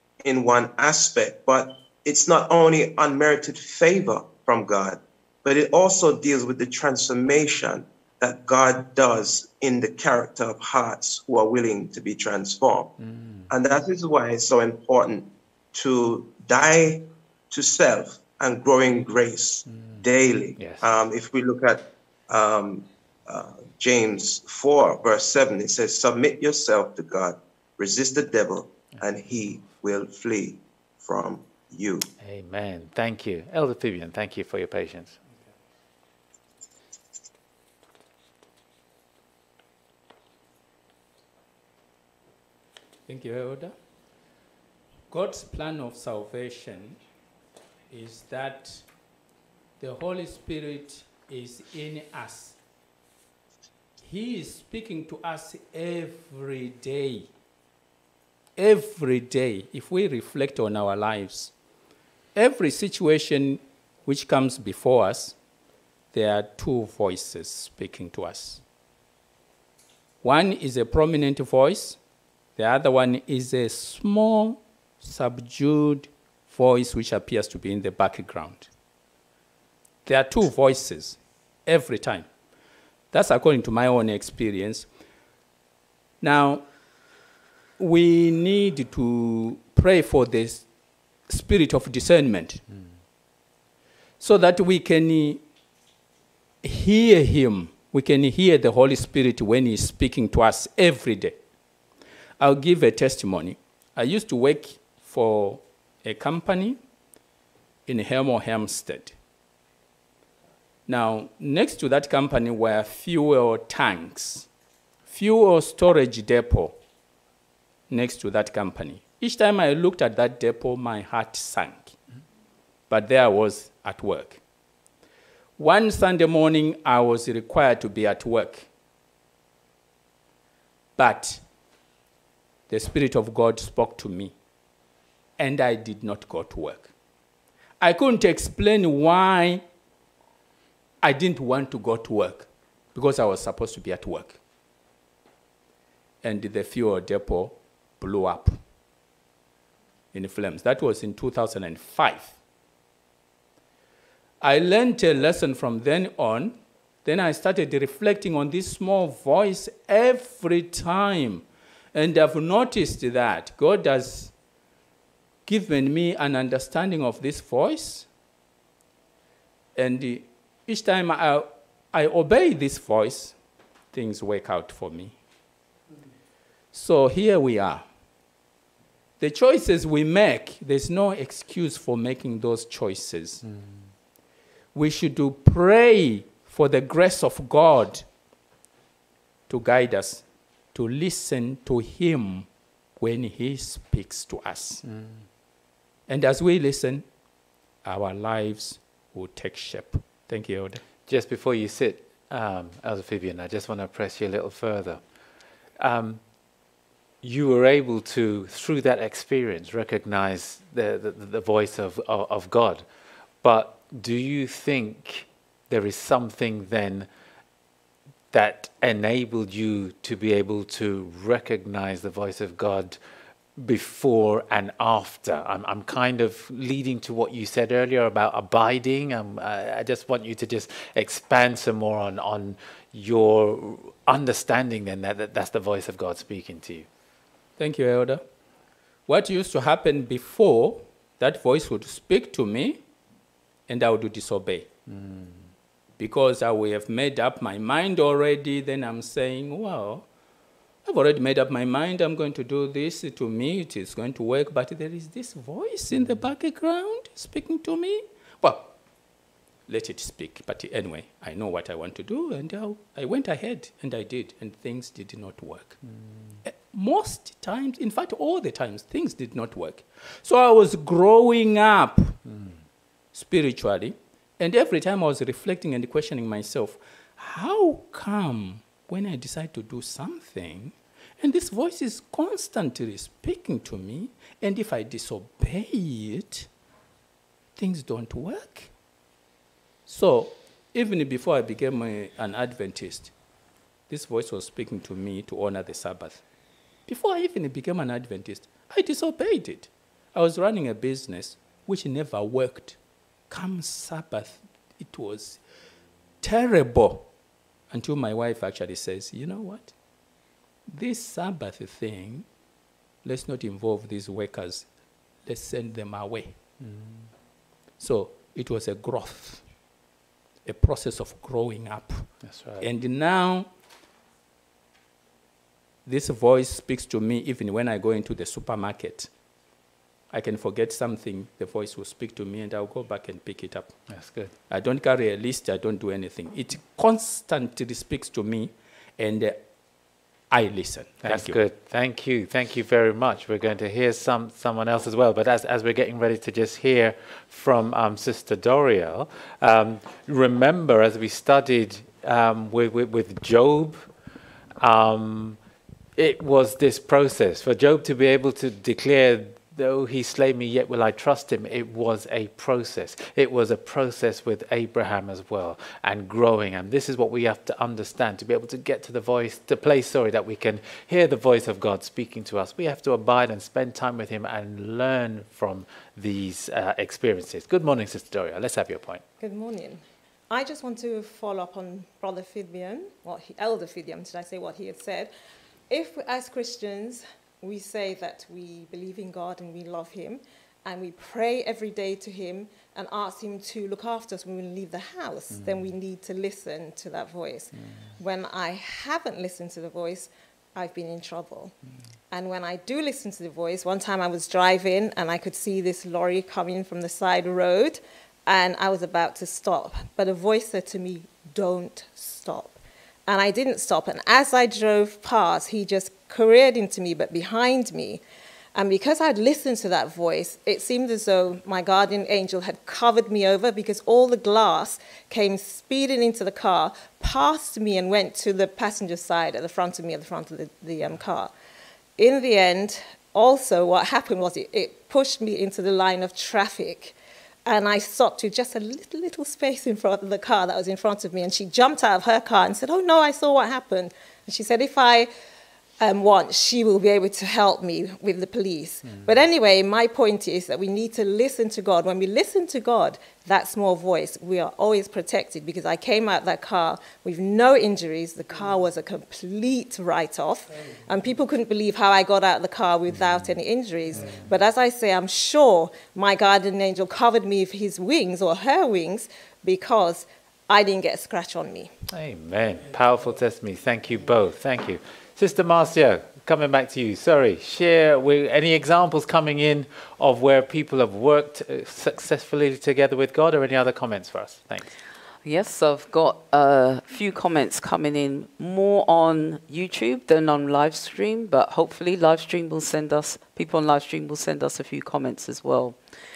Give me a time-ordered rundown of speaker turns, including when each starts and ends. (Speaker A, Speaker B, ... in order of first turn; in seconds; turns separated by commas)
Speaker A: 0.2-12.9, Speaker B: 13.0-13.5, Speaker A: 13.5-32.1, Speaker B: 19.7-20.0, Speaker B: 20.6-20.8, Speaker B: 32.2-35.2, Speaker C: 43.1-43.8, Speaker C: 45.1-47.0, Speaker C: 47.9-48.9, Speaker C: 49.8-52.6, Speaker C: 54.0-57.3, Speaker C: 58.6-61.5, Speaker C: 62.4-65.4, Speaker C: 66.1-68.6, Speaker C: 70.2-72.0, Speaker C: 72.6-78.7, Speaker C: 80.0-82.3, Speaker C: 83.1-84.9, Speaker C: 86.2-86.7, Speaker C: 87.8-90.7, Speaker C: 91.3-92.7, Speaker C: 94.2-95.4, Speaker C: 96.6-101.4, Speaker C: 102.4-106.8, Speaker C: 107.9-109.2, Speaker C: 110.9-114.5, Speaker C: 115.1-116.8, Speaker C: 117.9-122.0, Speaker C: 122.9-124.4, Speaker C: 125.6-128.7, Speaker C: 131.0-131.4, Speaker C: 132.7-134.3, Speaker C: 135.4-136.9, Speaker C: 137.8-139.7, Speaker C: 141.0-144.4, Speaker C: 146.2-148.6, Speaker C: 150.1-152.4, Speaker C: 154.4-164.4, Speaker C: 165.4-168.1, Speaker C: 169.8-173.4, Speaker C: 173.9-175.2, Speaker C: 176.7-177.9, Speaker C: 179.2-183.4, Speaker B: 183.4-183.9, Speaker C: 184.7-188.1, Speaker C: 189.5-194.8, Speaker B: 194.8-195.2, Speaker C: 196.1-197.1, Speaker C: 197.8-200.8, Speaker B: 201.1-205.0, Speaker B: 205.8-206.2, Speaker B: 207.2-212.9, Speaker B: 213.4-217.1, Speaker B: 218.3-223.0, Speaker B: 223.6-236.9, Speaker C: 237.6-238.2, Speaker C: 239.1-242.8, Speaker C: 243.7-244.7, Speaker B: 244.9-245.5, Speaker C: 246.0-250.1, Speaker C: 250.8-258.7, Speaker B: 255.9-256.3, Speaker C: 259.7-265.8, Speaker B: 265.9-266.4, Speaker C: 266.4-272.2, Speaker B: 272.3-272.6, Speaker C: 273.1-286.5, Speaker C: 287.6-288.7, Speaker C: 289.9-293.1, Speaker C: 293.9-296.2, Speaker C: 296.9-302.8, Speaker C: 303.3-305.4, Speaker C: 306.2-307.1, Speaker C: 307.7-309.7, Speaker C: 310.7-312.3, Speaker C: 313.0-314.7, Speaker C: 315.2-316.4, Speaker B: 316.6-317.1, Speaker C: 317.8-319.4, Speaker C: 320.4-323.5, Speaker B: 322.2-322.7, Speaker C: 325.9-329.1, Speaker C: 330.1-333.8, Speaker B: 333.9-334.3, Speaker C: 334.5-339.4, Speaker C: 340.3-341.4, Speaker B: 341.0-353.8, Speaker B: 354.6-355.4, Speaker B: 356.0-379.0, Speaker D: 379.2-385.1, Speaker D: 385.7-401.5, Speaker B: 395.3-395.7, Speaker B: 397.5-397.9, Speaker D: 402.1-418.0, Speaker D: 418.6-431.3, Speaker D: 432.0-436.9, Speaker D: 437.5-445.1, Speaker D: 445.8-471.7, Speaker B: 448.8-449.2, Speaker B: 462.9-463.4, Speaker B: 463.9-464.3, Speaker B: 471.9-484.7, Speaker E: 485.2-495.8